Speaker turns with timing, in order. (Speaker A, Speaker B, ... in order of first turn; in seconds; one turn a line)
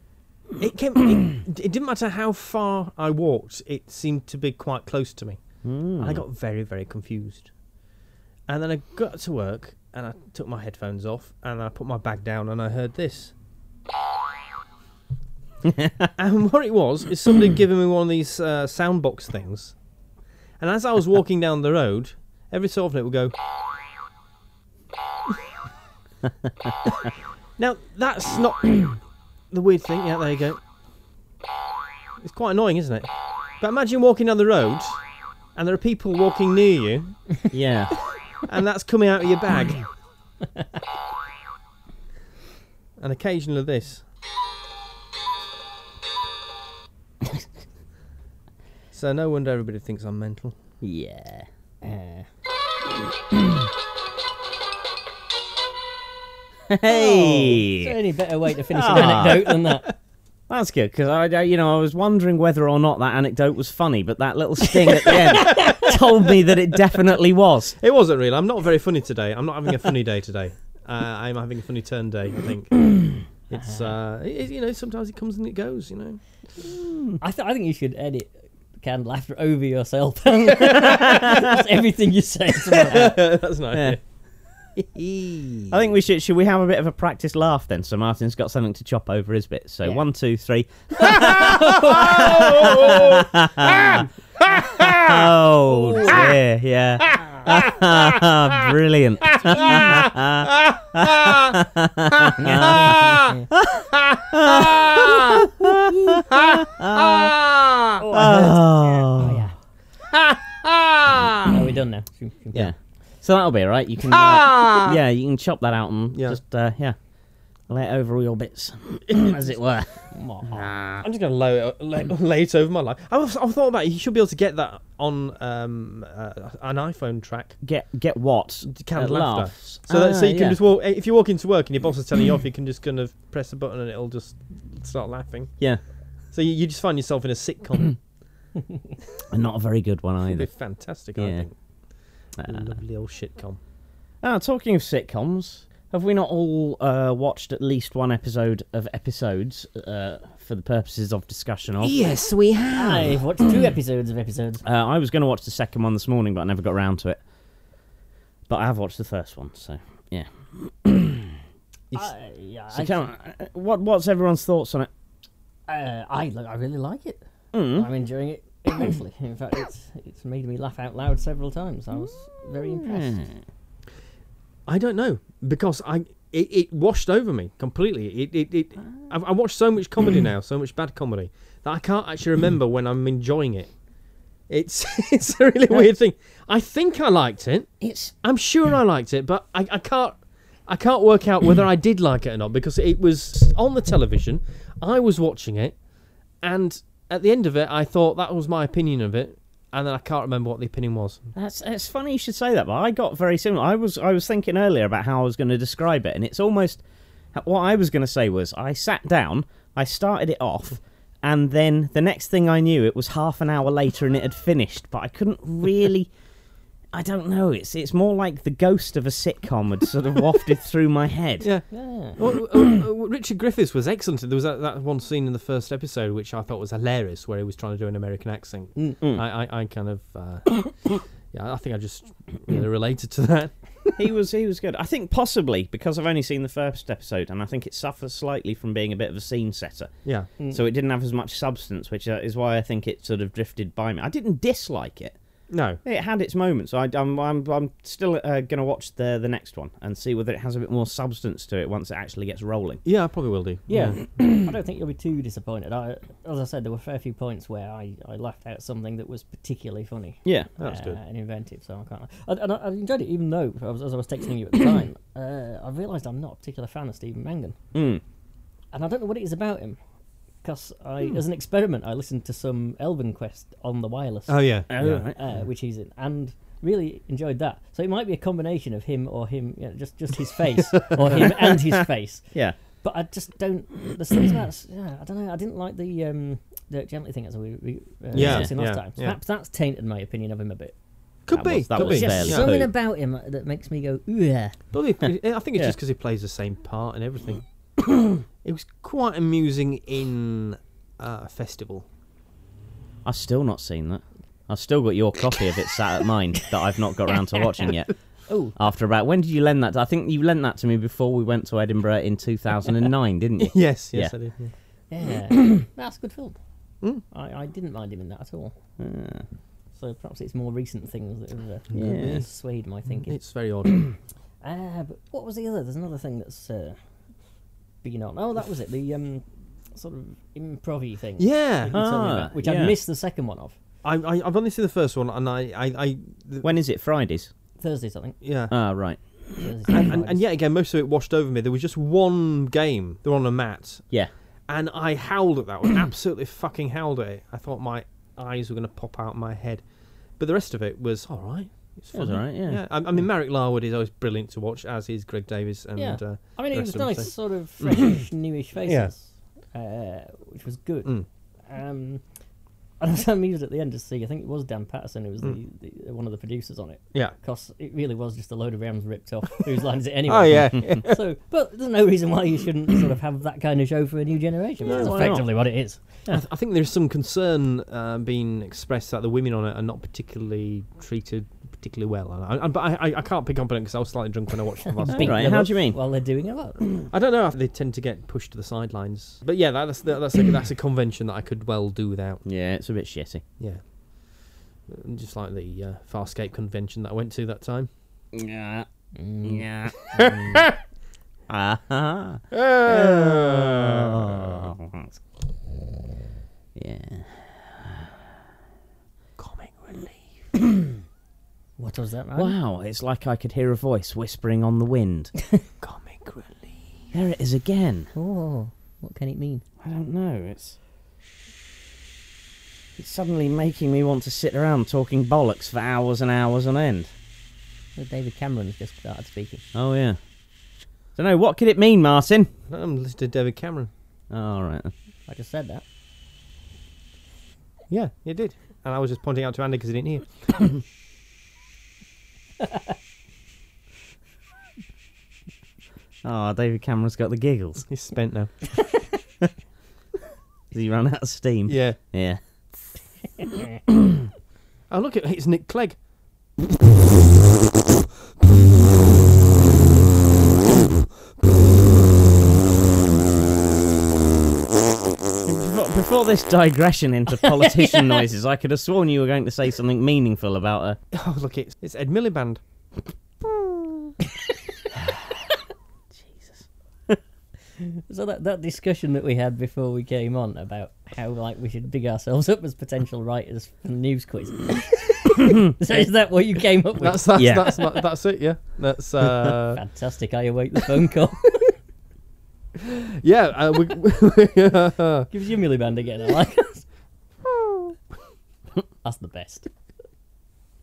Speaker A: 0.6-5.4
Speaker B: 5.6-6.2
Speaker A: 6.0-7.5
Speaker A: 8.5-13.3
Speaker B: 15.6-16.1
Speaker A: 16.2-19.7
Speaker A: 20.6-23.3
Speaker A: 27.6-29.0
Speaker A: 29.5-30.6
Speaker A: 32.2-35.0
Speaker A: 35.5-37.2
Speaker B: 37.5-38.0
Speaker A: 38.4-39.8
Speaker A: 43.0-44.0
Speaker A: 48.9-50.5
Speaker B: 50.8-51.5
Speaker C: 51.8-52.3
Speaker B: 56.7-57.9
Speaker C: 56.9-59.9
Speaker B: 58.7-59.5
Speaker B: 60.5-67.8
Speaker A: 65.1-66.0
Speaker C: 65.5-65.9
Speaker A: 67.8-76.2
Speaker C: 73.5-73.9
Speaker B: 76.8-77.2
Speaker C: 77.2-83.1
Speaker A: 80.7-81.3
Speaker A: 82.7-84.0
Speaker A: 84.8-85.8
Speaker B: 85.7-94.1
Speaker A: 91.1-96.3
Speaker C: 91.3-92.1
Speaker B: 94.8-107.3
Speaker A: 97.1-98.2
Speaker A: 99.3-101.5
Speaker C: 102.4-103.5
Speaker A: 102.6-103.1
Speaker A: 104.0-105.5
Speaker A: 106.1-108.0
Speaker C: 108.0-109.5
Speaker B: 108.1-109.4
Speaker A: 110.1-111.5
Speaker C: 111.4-112.7
Speaker B: 112.5-117.0
Speaker A: 114.1-115.0
Speaker A: 116.1-116.4
Speaker B: 117.7-119.9
Speaker C: 120.1-120.7
Speaker B: 120.5-121.1
Speaker A: 121.0-127.6
Speaker B: 127.6-130.6
Speaker A: 128.6-135.5
Speaker A: 136.3-138.0
Speaker B: 139.3-140.5
Speaker A: 140.3-141.5
Speaker B: 141.2-141.5
Speaker B: 142.4-142.7
Speaker A: 142.4-143.6
Speaker B: 144.2-152.0
Speaker A: 151.8-153.2
Speaker C: 152.7-154.6
Speaker B: 154.6-157.2
Speaker B: 158.5-161.4
Speaker C: 161.9-163.1
Speaker B: 162.7-164.9
Speaker C: 165.7-173.2
Speaker B: 167.5-167.9
Speaker B: 172.6-173.4
Speaker A: 174.7-183.7
Speaker A: 184.5-195.8
Speaker B: 187.8-188.1
Speaker A: 196.4-201.2
Speaker B: 201.3-206.8
Speaker B: 207.3-216.1
Speaker B: 216.9-221.5
Speaker A: 221.4-234.0
Speaker C: 221.7-222.2
Speaker B: 234.0-239.9
Speaker A: 240.1-240.3
Speaker B: 240.5-245.2
Speaker A: 245.5-245.8
Speaker B: 245.8-252.8
Speaker A: 252.8-254.0
Speaker C: 253.7-267.6
Speaker B: 260.2-260.5
Speaker A: 260.6-261.0
Speaker B: 267.7-268.0
Speaker C: 268.7-269.8
Speaker C: 270.4-282.3
Speaker A: 274.3-275.0
Speaker B: 274.7-275.2
Speaker C: 282.8-290.7
Speaker B: 288.1-288.5
Speaker A: 288.1-289.2
Speaker A: 291.3-292.5
Speaker B: 291.3-292.7
Speaker C: 291.7-294.6
Speaker A: 294.7-297.4
Speaker A: 298.4-301.8
Speaker B: 303.1-307.9
Speaker C: 308.3-308.6
Speaker B: 308.6-314.1
Speaker A: 313.4-314.5
Speaker C: 314.9-316.4
Speaker C: 317.1-318.6
Speaker B: 318.8-319.3
Speaker C: 319.8-323.1
Speaker A: 321.7-322.2
Speaker B: 321.7-322.2
Speaker A: 323.0-323.8
Speaker C: 324.4-326.8
Speaker C: 327.8-333.6
Speaker A: 331.2-331.7
Speaker B: 331.7-332.7
Speaker A: 333.8-336.5
Speaker B: 336.4-337.3
Speaker C: 337.6-338.2
Speaker A: 338.2-338.6
Speaker B: 338.5-339.2
Speaker C: 339.4-340.2
Speaker A: 339.7-343.8
Speaker A: 344.5-349.6
Speaker A: 350.2-358.0
Speaker B: 351.9-352.6
Speaker C: 355.8-360.9
Speaker A: 358.7-358.9
Speaker C: 361.5-362.0
Speaker C: 362.8-375.8
Speaker A: 370.1-371.0
Speaker B: 374.6-375.2
Speaker A: 374.7-375.2
Speaker A: 376.1-385.4
Speaker C: 384.7-386.7
Speaker B: 384.9-385.8
Speaker A: 386.9-392.2
Speaker B: 392.2-393.2
Speaker A: 394.7-397.7
Speaker B: 398.1-398.7
Speaker C: 398.9-400.4
Speaker B: 399.2-399.7
Speaker A: 400.0-400.6
Speaker B: 401.3-404.9
Speaker A: 402.3-404.5
Speaker B: 406.6-407.9
Speaker A: 409.2-410.0
Speaker C: 411.6-412.4
Speaker B: 412.1-415.1
Speaker A: 415.6-416.6
Speaker B: 416.9-417.9
Speaker C: 417.9-419.4
Speaker B: 419.6-420.6
Speaker B: 422.8-426.9
Speaker C: 427.8-429.4
Speaker B: 429.6-430.0
Speaker B: 430.9-432.3
Speaker A: 432.5-433.7
Speaker B: 434.1-434.7
Speaker C: 435.1-435.6
Speaker A: 437.7-440.6
Speaker B: 446.0-447.7
Speaker A: 447.7-448.5
Speaker B: 450.5-452.2
Speaker A: 451.5-451.8
Speaker A: 454.7-455.8
Speaker B: 465.2-470.8
Speaker C: 467.3-468.1
Speaker A: 470.9-472.4
Speaker B: 476.0-477.0
Speaker C: 477.6-487.4
Speaker A: 486.8-489.6
Speaker B: 487.1-487.6
Speaker C: 489.5-491.5
Speaker A: 492.6-495.1
Speaker C: 495.1-496.6
Speaker C: 498.8-499.5